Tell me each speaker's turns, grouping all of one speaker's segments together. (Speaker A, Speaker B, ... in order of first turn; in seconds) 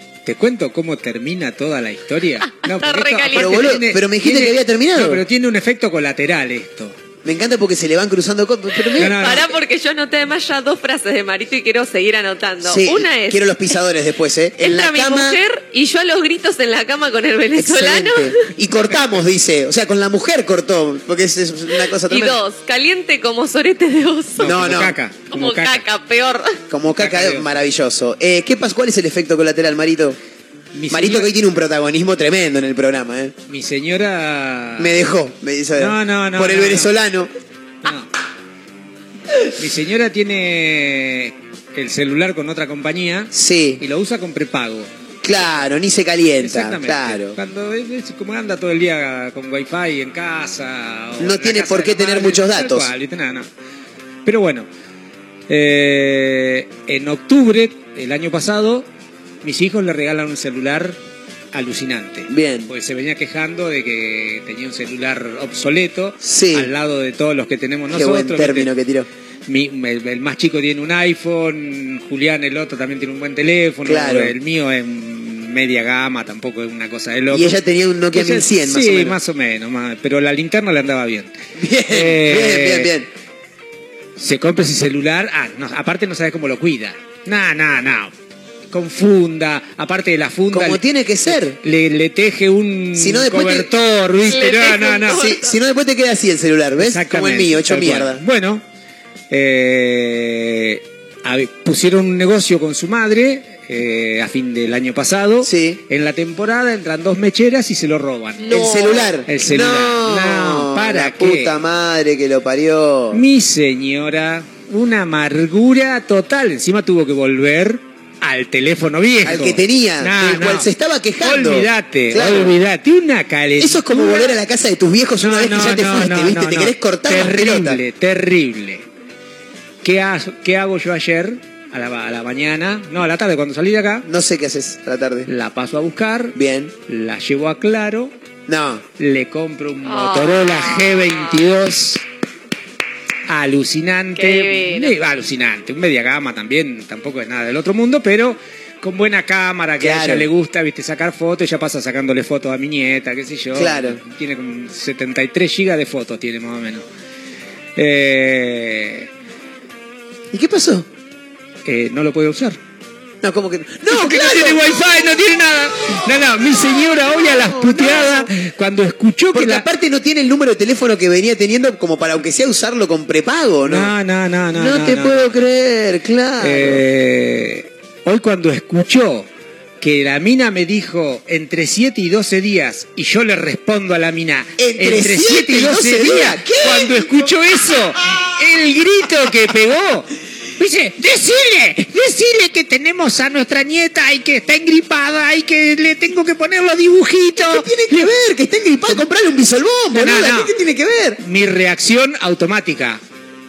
Speaker A: 0.2-6.9, 9.0-9.5, 24.4-25.8, 26.9-27.5, 30.7-31.3, 33.5-35.0, 35.8-36.9, 37.8-38.1, 39.6-44.9, 46.4-53.5, 54.2-54.7, 55.5-58.9, 59.4-61.0, 61.5-68.7, 69.5-77.6, 78.1-82.9, 84.2-88.1, 88.7-95.2, 96.8-98.6, 99.3-108.7, 109.2-111.5, 113.1-120.7, 121.2-124.0, 125.2-128.8, 129.8-134.1, 135.3-136.3, 136.9-138.1, 139.0-142.0, 143.3-156.8, 157.8-159.1, 161.6-162.6, 163.9-169.7, 173.7-175.4, 176.4-179.3, 179.8-198.1, 199.9-200.5, 201.2-203.0
Speaker B: 2.5-3.8, 8.8-13.6, 14.6-18.4, 22.1-24.6, 25.3-26.6, 94.2-95.5, 108.4-109.1, 139.8-141.4, 144.2-144.9
Speaker C: 3.3-5.2, 7.2-9.4, 12.6-15.4, 17.6-22.4, 24.4-24.9, 26.7-30.2, 30.9-33.3, 34.8-37.3, 43.3-43.8, 45.2-47.4, 51.2-52.9, 62.3-62.7, 66.2-66.7, 67.9-69.1, 73.8-74.3, 77.3-79.2, 81.6-83.1, 90.5-91.6, 93.0-93.7, 95.1-98.2, 105.4-105.8, 108.5-113.2, 119.2-122.5, 123.6-127.8, 134.0-135.3, 136.3-136.7, 138.5-138.8, 149.8-150.3, 153.5-154.0, 160.3-160.9, 163.2-164.9, 166.4-168.3, 169.3-173.9, 174.5-176.8, 184.6-187.3, 197.5-201.2